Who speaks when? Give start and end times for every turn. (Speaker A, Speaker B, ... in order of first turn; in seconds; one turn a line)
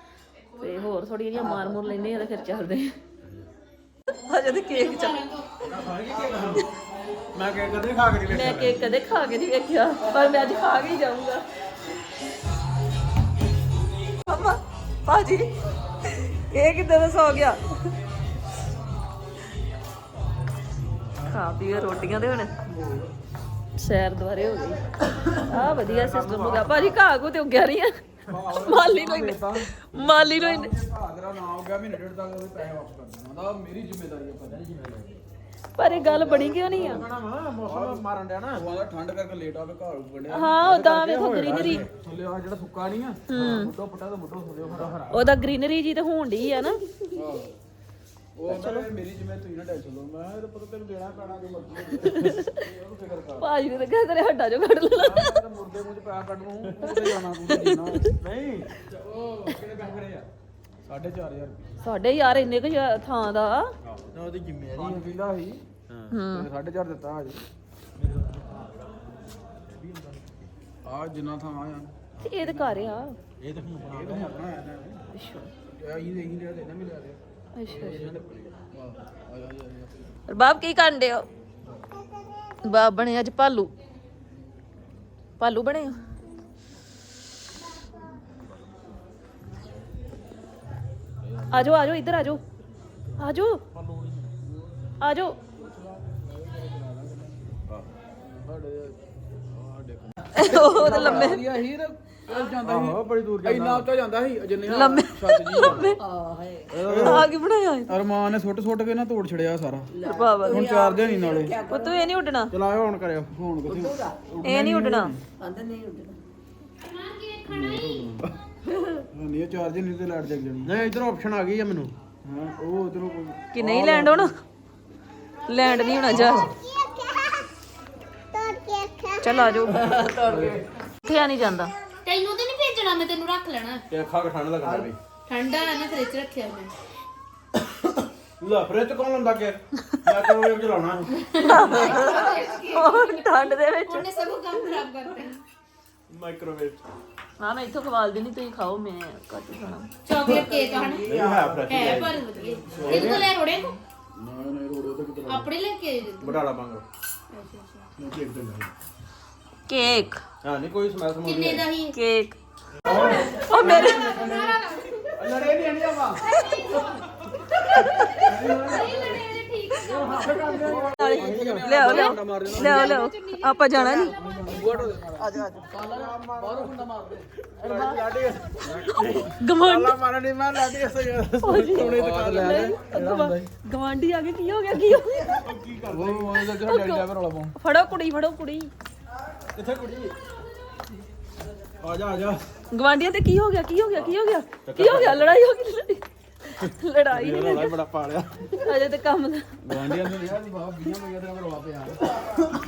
Speaker A: 0.6-2.9
Speaker A: 4.2-5.2
Speaker B: 4.7-5.7
Speaker C: 5.7-6.7
Speaker D: 6.1-6.4
Speaker C: 7.3-8.8
Speaker A: 8.3-11.4
Speaker A: 14.2-15.5
Speaker A: 16.2-17.6
Speaker A: 21.3-22.5
Speaker E: 22.7-23.1
Speaker A: 23.8-24.8
Speaker C: 25.1-27.0
Speaker A: 25.4-28.0
Speaker E: 28.3-34.6
Speaker A: 28.6-30.7
Speaker C: 34.4-35.2
Speaker A: 35.8-37.0
Speaker E: 35.9-37.0
Speaker C: 36.6-38.6
Speaker E: 37.6-38.0
Speaker E: 38.5-40.6
Speaker A: 40.3-41.8
Speaker C: 40.6-41.9
Speaker E: 41.5-45.1
Speaker A: 43.3-43.7
Speaker C: 44.6-45.5
Speaker A: 45.1-46.8
Speaker E: 47.1-47.6
Speaker E: 48.4-53.5
Speaker C: 48.5-48.9
Speaker A: 52.0-52.6
Speaker A: 53.4-55.4
Speaker E: 55.0-58.0
Speaker A: 57.5-58.0
Speaker C: 58.1-60.3
Speaker E: 59.1-59.5
Speaker E: 60.8-61.6
Speaker A: 61.8-63.7
Speaker C: 63.8-65.1
Speaker E: 64.7-65.6
Speaker C: 65.9-66.2
Speaker A: 66.1-66.5
Speaker E: 66.3-67.4
Speaker C: 68.0-68.9
Speaker C: 69.7-70.5
Speaker E: 70.8-73.0
Speaker A: 72.2-73.2
Speaker C: 73.4-74.5
Speaker E: 73.9-75.0
Speaker A: 75.1-75.5
Speaker E: 75.7-78.2
Speaker A: 77.5-78.0
Speaker C: 77.7-78.7
Speaker E: 78.7-80.2
Speaker A: 80.3-81.3
Speaker A: 82.6-83.7
Speaker A: 85.4-85.9
Speaker A: 91.5-92.4
Speaker A: 93.2-93.6
Speaker C: 93.7-94.3
Speaker A: 95.0-95.4
Speaker E: 95.6-97.4
Speaker E: 98.2-105.9
Speaker A: 100.3-101.5
Speaker C: 100.5-101.3
Speaker C: 102.6-103.9
Speaker A: 104.6-106.0
Speaker D: 106.0-106.8
Speaker C: 106.7-107.3
Speaker A: 107.0-107.9
Speaker E: 107.9-109.9
Speaker D: 109.9-112.0
Speaker A: 110.0-110.7
Speaker E: 110.4-111.5
Speaker A: 111.7-112.5
Speaker C: 112.5-113.3
Speaker E: 113.3-113.9
Speaker D: 113.6-114.2
Speaker C: 114.3-114.9
Speaker A: 114.4-115.1
Speaker E: 114.8-115.2
Speaker D: 115.4-116.2
Speaker B: 116.8-117.9
Speaker E: 117.5-118.3
Speaker E: 119.1-120.7
Speaker C: 120.6-121.9
Speaker E: 122.2-124.3
Speaker A: 123.5-124.3
Speaker A: 125.5-126.5
Speaker C: 126.1-126.5
Speaker A: 129.2-129.8
Speaker D: 129.7-130.6
Speaker E: 130.2-130.6
Speaker A: 131.0-131.7
Speaker B: 132.0-133.8
Speaker C: 133.9-134.9
Speaker B: 135.3-136.7
Speaker C: 138.4-141.1
Speaker B: 141.1-145.3
Speaker A: 141.4-144.1
Speaker D: 141.7-142.6
Speaker C: 146.1-146.8
Speaker A: 147.4-149.9
Speaker B: 150.0-151.0
Speaker D: 150.2-152.2
Speaker C: 151.0-152.2
Speaker B: 151.7-153.8
Speaker E: 152.7-153.1
Speaker D: 152.7-153.2
Speaker C: 152.8-153.3
Speaker E: 154.2-155.5
Speaker B: 155.3-156.4
Speaker C: 156.2-156.8
Speaker B: 157.3-157.8
Speaker E: 158.0-158.7
Speaker A: 159.7-160.2
Speaker C: 160.4-161.7
Speaker B: 161.2-161.9
Speaker A: 161.9-162.4
Speaker C: 162.8-164.6
Speaker B: 162.8-165.1
Speaker A: 163.3-164.2
Speaker C: 165.2-166.2
Speaker B: 166.4-167.1
Speaker C: 167.7-168.8
Speaker B: 167.9-170.8
Speaker E: 168.5-169.0
Speaker C: 169.8-171.9
Speaker E: 170.5-172.9
Speaker A: 170.8-174.2
Speaker B: 172.5-174.1
Speaker D: 173.8-174.1
Speaker E: 174.2-177.2
Speaker D: 175.2-175.7
Speaker C: 175.8-176.9
Speaker C: 177.6-182.8
Speaker A: 177.6-179.9
Speaker A: 181.4-185.4
Speaker E: 181.8-183.5
Speaker C: 185.4-186.4
Speaker E: 185.9-187.5
Speaker A: 186.5-188.7
Speaker C: 189.5-190.1
Speaker C: 191.8-192.4
Speaker A: 192.7-197.7
Speaker C: 194.6-195.4
Speaker C: 196.6-198.5
Speaker A: 198.6-199.5
Speaker E: 199.7-202.0
Speaker C: 199.7-200.0